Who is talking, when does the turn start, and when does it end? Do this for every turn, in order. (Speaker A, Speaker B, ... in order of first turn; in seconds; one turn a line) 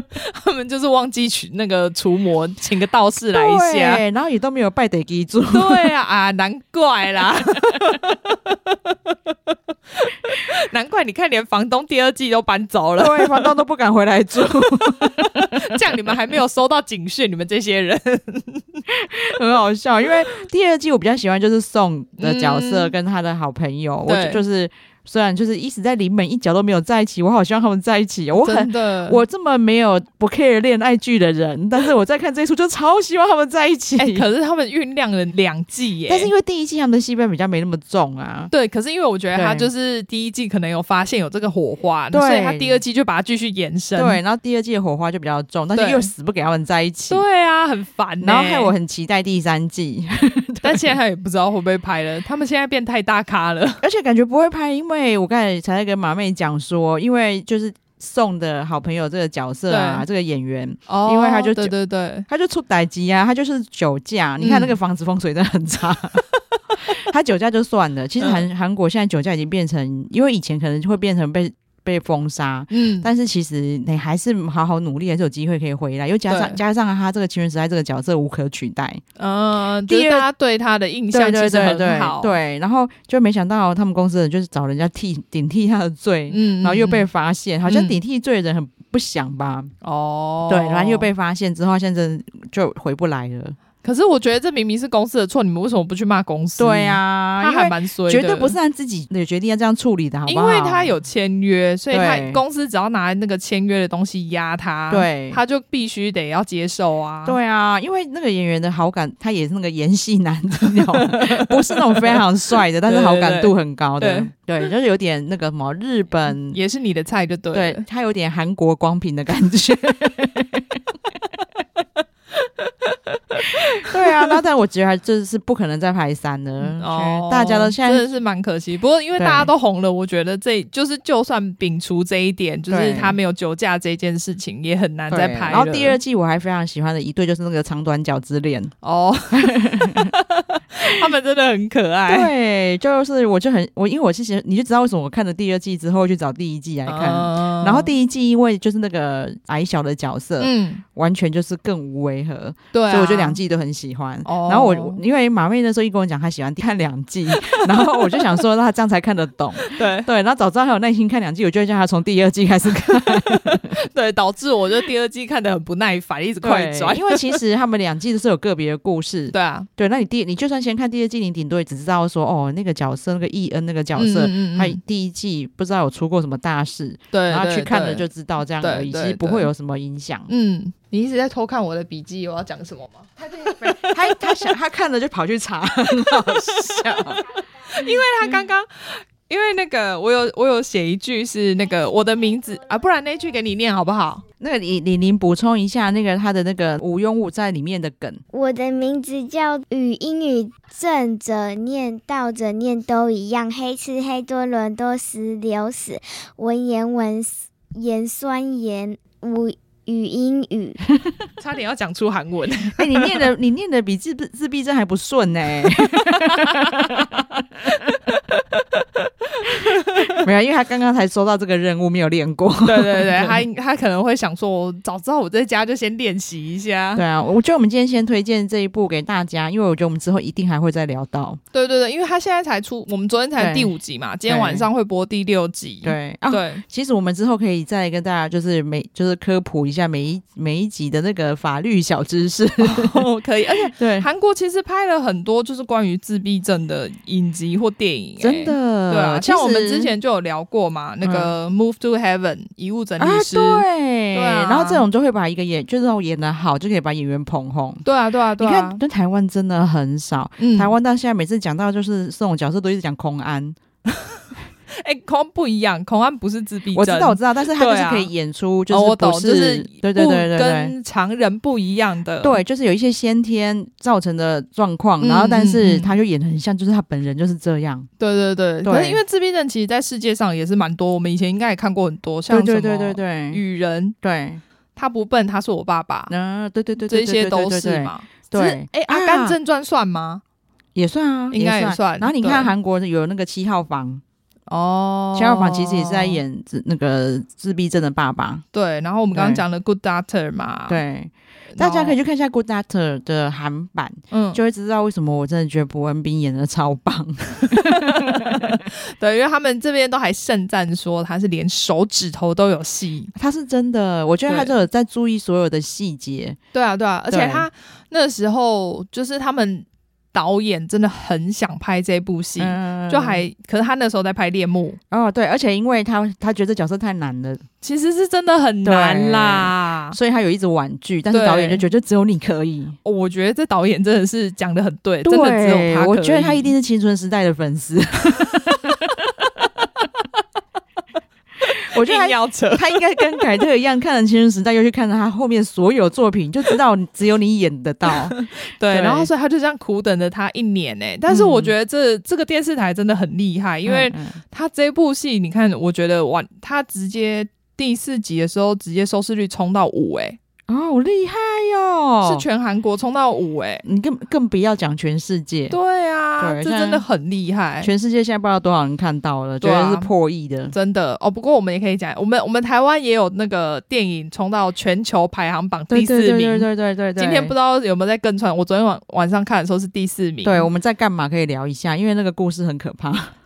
Speaker A: 0.1-4.0
Speaker B: 3.3-5.9
Speaker A: 5.5-13.5
Speaker B: 13.0-15.7
Speaker A: 15.0-18.8
Speaker B: 18.9-34.2
Speaker A: 22.2-22.9
Speaker A: 24.1-24.4
Speaker A: 28.4-29.2
Speaker A: 34.0-36.3
Speaker B: 36.1-38.5
Speaker A: 38.5-44.2
Speaker B: 39.3-39.7
Speaker B: 42.1-42.8
Speaker B: 43.9-47.2
Speaker A: 45.8-46.1
Speaker A: 47.1-48.7
Speaker B: 48.2-50.9
Speaker A: 50.6-53.8
Speaker B: 53.8-61.7
Speaker A: 59.7-60.0
Speaker A: 60.9-62.2
Speaker B: 62.3-66.2
Speaker A: 64.4-64.7
Speaker B: 66.8-79.0
Speaker A: 68.2-68.4
Speaker A: 72.7-73.1
Speaker A: 76.3-76.6
Speaker A: 79.2-82.3
Speaker B: 79.9-80.3
Speaker B: 81.1-89.7
Speaker A: 86.3-87.0
Speaker A: 87.7-88.0
Speaker A: 89.8-91.1
Speaker B: 90.5-93.5
Speaker A: 93.8-98.5
Speaker B: 96.6-100.9
Speaker A: 100.2-107.4
Speaker B: 101.9-102.4
Speaker B: 104.9-105.4
Speaker B: 107.2-116.6
Speaker A: 110.7-112.2
Speaker A: 112.8-114.3
Speaker A: 116.5-117.8
Speaker B: 117.5-120.8
Speaker A: 122.4-124.3
Speaker B: 123.8-128.1
Speaker A: 126.6-136.0
Speaker B: 129.2-129.5
Speaker B: 132.7-133.2
Speaker B: 135.1-138.7
Speaker A: 138.8-142.3
Speaker B: 139.3-140.1
Speaker B: 142.1-163.7
Speaker A: 146.8-147.9
Speaker A: 150.4-150.8
Speaker A: 152.7-153.4
Speaker A: 154.2-155.0
Speaker A: 157.3-158.3
Speaker A: 159.6-160.1
Speaker A: 162.9-167.4
Speaker B: 166.4-180.3
Speaker A: 169.3-169.7
Speaker A: 173.9-174.8
Speaker A: 177.1-178.0
Speaker A: 178.6-179.5
Speaker A: 180.3-184.5
Speaker B: 183.8-187.2
Speaker A: 186.3-194.2
Speaker B: 194.4-198.2
Speaker C: 198.3-210.8
Speaker A: 211.4-213.1
Speaker B: 212.8-218.3
Speaker A: 216.1-216.9
Speaker A: 219.4-220.2
Speaker B: 220.2-223.4
Speaker A: 222.6-227.0
Speaker B: 226.9-231.4
Speaker A: 231.5-236.6
Speaker B: 233.3-233.7
Speaker B: 234.2-234.7
Speaker B: 235.8-243.0
Speaker A: 242.6-254.8
Speaker B: 243.7-244.1
Speaker B: 248.2-249.9
Speaker B: 251.0-251.3
Speaker B: 253.0-257.9
Speaker A: 257.8-258.8
Speaker B: 258.4-263.6
Speaker A: 260.4-260.7
Speaker A: 264.7-268.1
Speaker B: 266.7-270.7
Speaker A: 268.7-272.4
Speaker B: 272.2-277.9
Speaker A: 275.0-275.9
Speaker A: 278.0-283.9
Speaker B: 278.6-279.0
Speaker B: 282.3-283.4
Speaker B: 284.0-284.4
Speaker A: 284.8-286.1
Speaker B: 286.1-289.4
Speaker A: 286.9-290.2
Speaker B: 290.7-294.0
Speaker A: 291.3-292.5
Speaker A: 294.5-296.2
Speaker B: 295.1-298.4
Speaker A: 298.5-300.8
Speaker B: 299.1-299.4
Speaker B: 300.7-308.6
Speaker A: 301.5-301.9
Speaker A: 304.1-304.4
Speaker A: 307.5-313.1
Speaker B: 313.1-316.4
Speaker A: 314.3-314.5
Speaker A: 316.5-324.8
Speaker B: 317.1-317.5
Speaker B: 322.4-323.2
Speaker B: 324.9-327.4
Speaker A: 327.6-329.9
Speaker B: 328.6-332.8
Speaker A: 331.1-331.6
Speaker A: 332.8-336.5
Speaker B: 335.0-339.4
Speaker A: 341.4-343.2
Speaker B: 341.7-348.1
Speaker A: 347.9-360.2
Speaker B: 348.7-349.1
Speaker B: 351.1-351.5
Speaker B: 353.6-354.2
Speaker B: 360.5-362.2
Speaker A: 362.0-363.6
Speaker B: 363.6-365.6
Speaker A: 365.5-367.7
Speaker B: 366.2-366.8
Speaker B: 367.6-370.5
Speaker A: 369.4-369.9
Speaker A: 370.5-380.5
Speaker B: 375.7-377.3
Speaker B: 380.2-383.1